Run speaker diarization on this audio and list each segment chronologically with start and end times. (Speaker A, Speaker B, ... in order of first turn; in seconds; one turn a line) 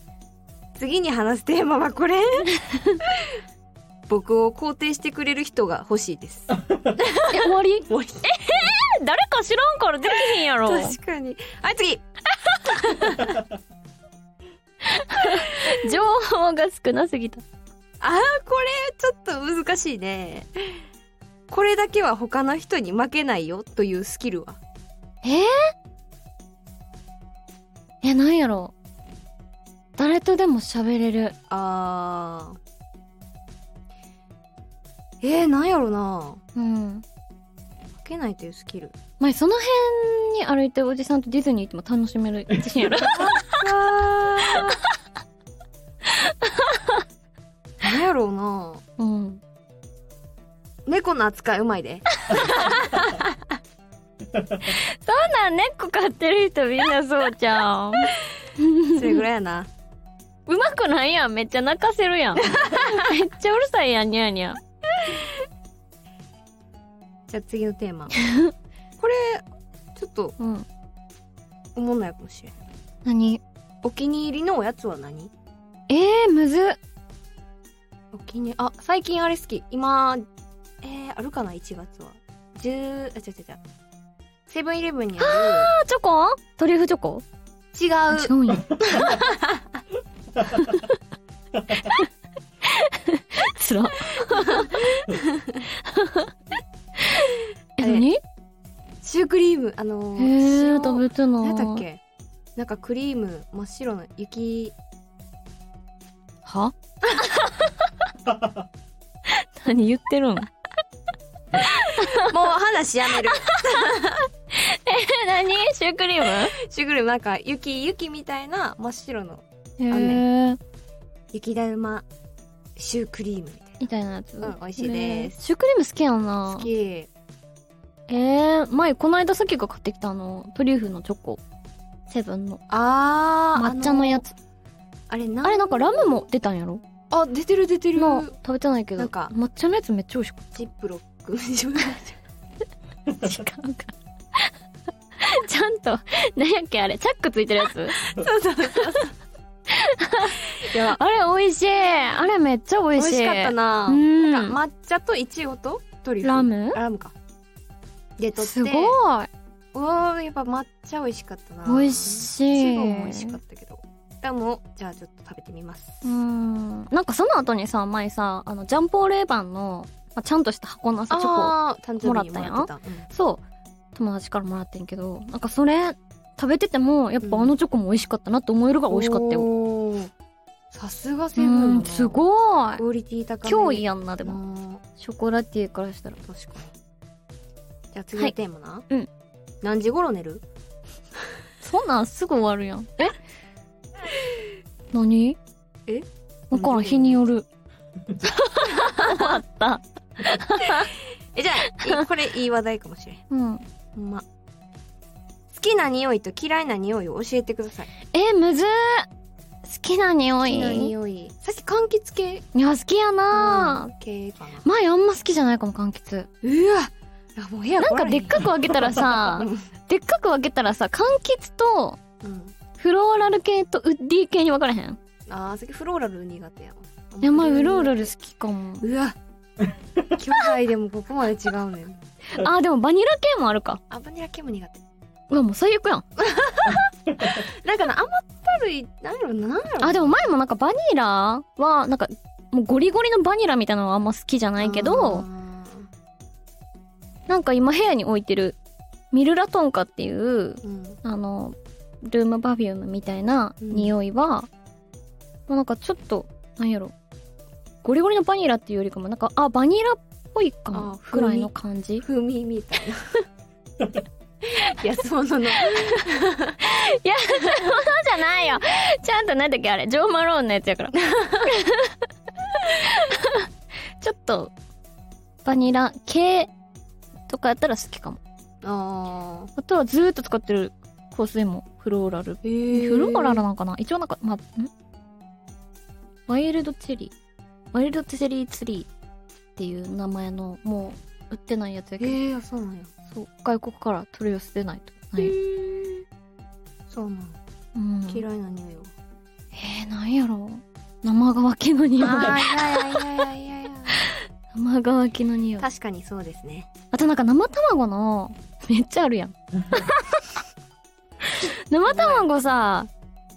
Speaker A: 0.7-2.5
Speaker B: 2.6-3.0
Speaker A: 4.1-8.5
Speaker B: 7.3-10.9
Speaker A: 10.6-12.0
Speaker A: 12.6-13.4
Speaker B: 14.9-17.4
Speaker A: 18.0-20.5
Speaker A: 21.5-24.6
Speaker B: 25.2-25.7
Speaker B: 28.0-28.7
Speaker B: 30.0-31.3
Speaker A: 31.5-32.6
Speaker A: 35.2-36.4
Speaker B: 36.5-37.0
Speaker A: 38.0-38.9
Speaker B: 39.2-43.6
Speaker A: 42.9-44.8
Speaker B: 46.1-47.0
Speaker A: 47.8-48.8
Speaker B: 49.0-49.4
Speaker A: 50.9-53.4
Speaker B: 52.2-53.0
Speaker B: 54.6-59.2
Speaker A: 58.9-59.7
Speaker B: 60.5-64.6
Speaker A: 62.5-62.9
Speaker A: 67.3-68.3
Speaker B: 68.2-68.5
Speaker A: 69.0-69.4
Speaker A: 70.0-70.3
Speaker B: 70.4-70.7
Speaker A: 71.7-72.6
Speaker B: 73.0-73.4
Speaker A: 73.8-75.3
Speaker B: 75.9-76.8
Speaker A: 78.1-80.2
Speaker A: 80.8-83.6
Speaker A: 84.5-85.7
Speaker B: 85.2-87.2
Speaker A: 87.7-89.5
Speaker B: 88.1-89.2
Speaker B: 90.5-90.9
Speaker B: 92.7-94.8
Speaker A: 94.3-95.6
Speaker B: 95.8-96.3
Speaker B: 97.0-98.2
Speaker A: 97.8-98.1
Speaker A: 99.0-102.0
Speaker B: 100.2-101.8
Speaker A: 102.5-104.7
Speaker B: 106.4-107.9
Speaker B: 109.3-110.5
Speaker B: 111.6-112.3
Speaker A: 112.1-114.2
Speaker B: 113.2-116.5
Speaker A: 116.5-120.2
Speaker B: 119.8-120.6
Speaker A: 121.3-122.0
Speaker A: 122.8-123.8
Speaker B: 123.8-126.7
Speaker A: 124.4-125.4
Speaker A: 126.5-127.1
Speaker B: 128.1-131.4
Speaker B: 132.1-132.6
Speaker A: 132.7-134.2
Speaker B: 133.5-134.3
Speaker A: 135.1-136.2
Speaker B: 135.4-136.8
Speaker A: 137.1-138.3
Speaker B: 137.9-140.6
Speaker A: 139.0-139.3
Speaker A: 140.5-142.2
Speaker B: 143.2-144.5
Speaker B: 145.2-148.0
Speaker A: 148.0-149.1
Speaker B: 149.7-154.6
Speaker A: 150.5-151.0
Speaker A: 152.9-157.1
Speaker B: 156.2-156.8
Speaker A: 158.2-158.9
Speaker B: 158.4-159.3
Speaker A: 159.7-166.1
Speaker B: 161.6-163.4
Speaker B: 166.0-173.4
Speaker A: 171.1-173.1
Speaker B: 173.9-179.5
Speaker A: 177.2-177.5
Speaker A: 178.9-180.1
Speaker A: 180.7-182.2
Speaker B: 181.3-182.8
Speaker A: 182.8-184.8
Speaker B: 183.4-184.4
Speaker B: 185.0-186.2
Speaker A: 186.2-186.7
Speaker A: 187.9-188.9
Speaker A: 189.6-190.4
Speaker B: 191.6-193.2
Speaker B: 194.9-195.4
Speaker A: 195.9-197.2
Speaker B: 196.5-197.4
Speaker B: 198.2-200.9
Speaker A: 198.8-199.4
Speaker A: 200.6-203.2
Speaker B: 203.3-203.6
Speaker A: 203.9-204.2
Speaker A: 205.5-207.9
Speaker B: 208.1-209.1
Speaker B: 209.7-210.9
Speaker A: 210.4-212.5
Speaker B: 212.5-213.9
Speaker A: 213.3-214.6
Speaker B: 214.6-216.3
Speaker A: 216.4-219.6
Speaker B: 217.8-222.0
Speaker A: 222.2-222.5
Speaker B: 222.8-225.0
Speaker A: 225.3-228.1
Speaker B: 227.2-228.8
Speaker A: 228.8-229.2
Speaker A: 230.0-232.0
Speaker B: 232.3-233.8
Speaker A: 233.9-234.8
Speaker B: 235.3-236.1
Speaker A: 236.2-240.2
Speaker B: 239.8-245.2
Speaker A: 244.6-245.9
Speaker B: 247.3-248.6
Speaker B: 249.1-254.5
Speaker A: 250.6-251.0
Speaker A: 253.6-253.9
Speaker B: 255.5-256.9
Speaker B: 257.8-262.0
Speaker A: 260.7-263.2
Speaker A: 264.4-266.6
Speaker B: 266.6-272.0
Speaker A: 271.1-271.4
Speaker B: 272.6-273.4
Speaker B: 274.0-274.5
Speaker B: 275.4-276.5
Speaker B: 277.3-278.2
Speaker A: 278.6-279.5
Speaker B: 279.6-284.7
Speaker A: 282.4-283.4
Speaker B: 286.3-287.1
Speaker B: 287.7-288.9
Speaker B: 289.6-292.2
Speaker A: 292.0-292.9
Speaker B: 293.1-295.9
Speaker A: 295.1-295.6
Speaker A: 296.9-297.4
Speaker B: 297.8-298.2
Speaker A: 298.1-298.9
Speaker B: 299.5-303.1
Speaker A: 302.0-304.0
Speaker B: 304.1-305.6
Speaker A: 305.6-306.7
Speaker B: 306.9-310.2
Speaker B: 311.3-312.9
Speaker A: 311.9-312.2